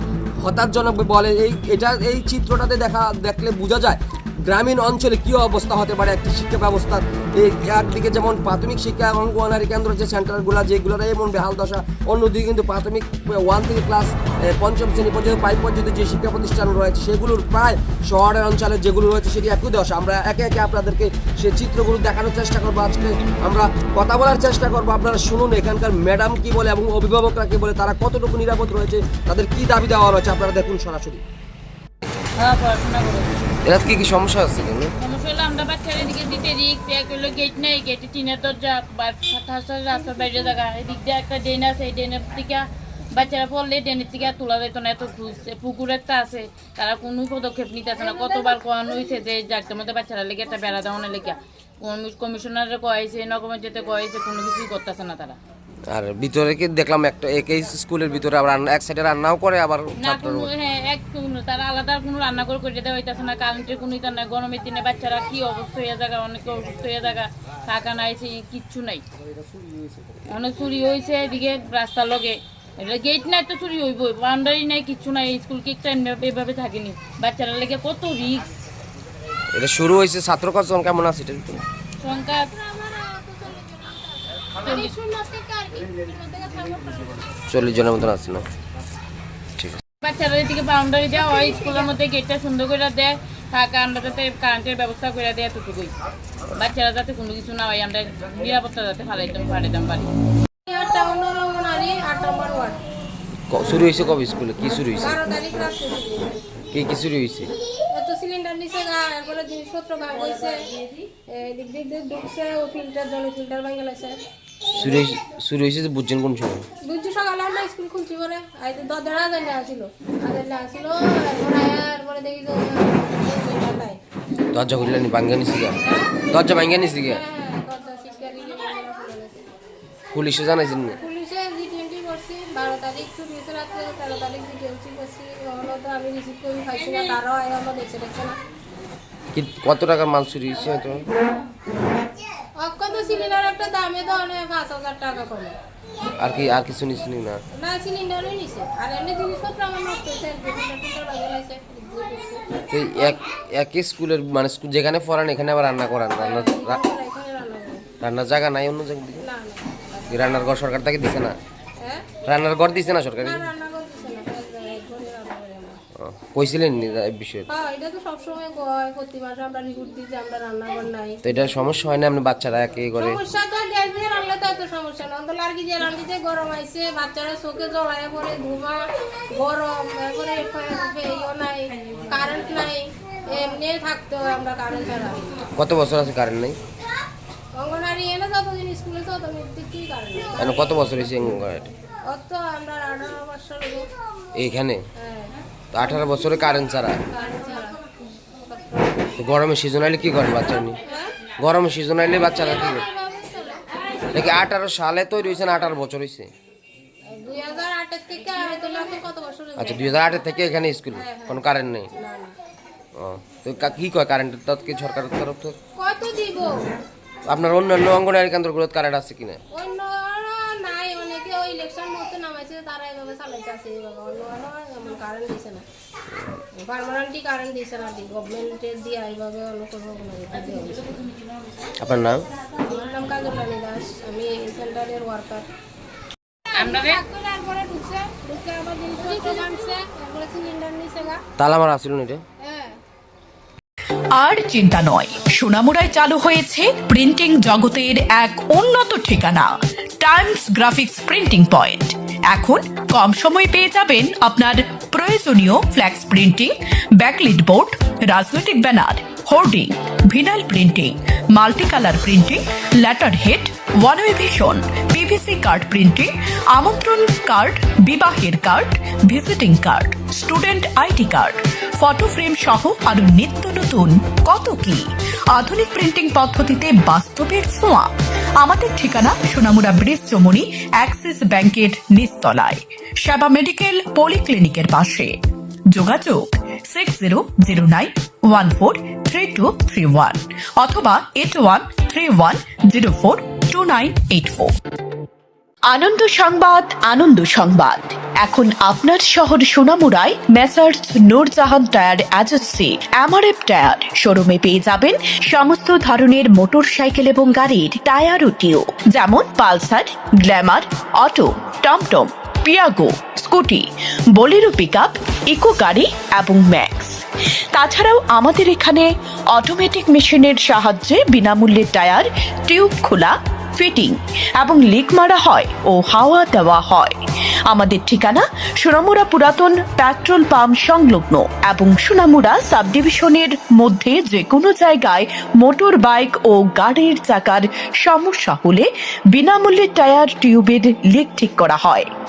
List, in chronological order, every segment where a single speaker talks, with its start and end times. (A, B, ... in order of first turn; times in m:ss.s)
0:00.4-0:31.2 A
0:32.4-0:33.4 B
0:33.6-0:34.9 A
0:35.0-0:55.4 B
0:55.9-1:00.5 A
1:00.0-1:09.0 B
1:10.3-1:18.5 B
1:19.5-1:21.6 A
1:22.0-1:22.5 B
1:22.2-1:27.4 C
1:24.6-1:24.9 B
1:27.5-1:28.4 A
1:30.0-1:35.9 B
1:31.2-1:31.9 C
1:36.5-1:40.1 B
1:40.6-1:42.8 C
1:43.5-1:45.2 A
1:45.0-1:46.4 C
1:46.7-1:47.5 A
1:47.9-1:54.2 C
1:54.7-1:56.6 A
1:56.8-2:04.0 C
2:04.5-2:05.8 A
2:05.7-2:09.4 C
2:06.3-2:07.2 A
2:10.1-2:11.0 A
2:11.0-2:18.4 C
2:19.3-2:21.1 A
2:22.6-2:25.6 C
2:26.2-2:27.4 A
2:27.5-2:32.4 C
2:32.7-2:36.8 A
2:36.2-2:37.8 C
2:38.0-2:39.2 A
2:39.2-2:40.3 C
2:40.1-2:41.4 A
2:41.8-2:42.1 C
2:42.2-2:43.5 A
2:43.2-2:45.8 C
2:46.0-2:47.5 A
2:47.5-2:51.2 C
2:51.2-2:53.2 A
2:52.9-3:05.4 C
3:05.5-3:06.6 A
3:07.5-3:10.7 C
3:10.4-3:11.7 A
3:12.1-3:13.9 C
3:14.3-3:14.8 A
3:15.0-3:15.4 C
3:15.7-3:17.0 A
3:17.1-3:17.8 C
3:18.3-3:19.1 C
3:19.2-3:20.8 A
3:20.8-3:21.1 C
3:21.4-3:22.8 A
3:22.3-3:23.6 C
3:24.1-3:26.3 A
3:27.0-3:29.9 C
3:29.6-3:31.9 A
3:30.9-3:32.4 C
3:33.0-3:35.6 A
3:35.8-3:36.7 C
3:37.2-3:39.4 A
3:39.5-3:45.6 C
3:46.5-3:50.9 C
3:51.8-3:52.2 A
3:52.6-3:55.5 C
3:56.5-4:01.2 C
3:56.5-3:57.0 B
4:01.4-4:02.2 A
4:02.4-4:02.8 C
4:04.1-4:45.2 D
4:45.7-4:54.5 D
4:55.7-5:41.9 D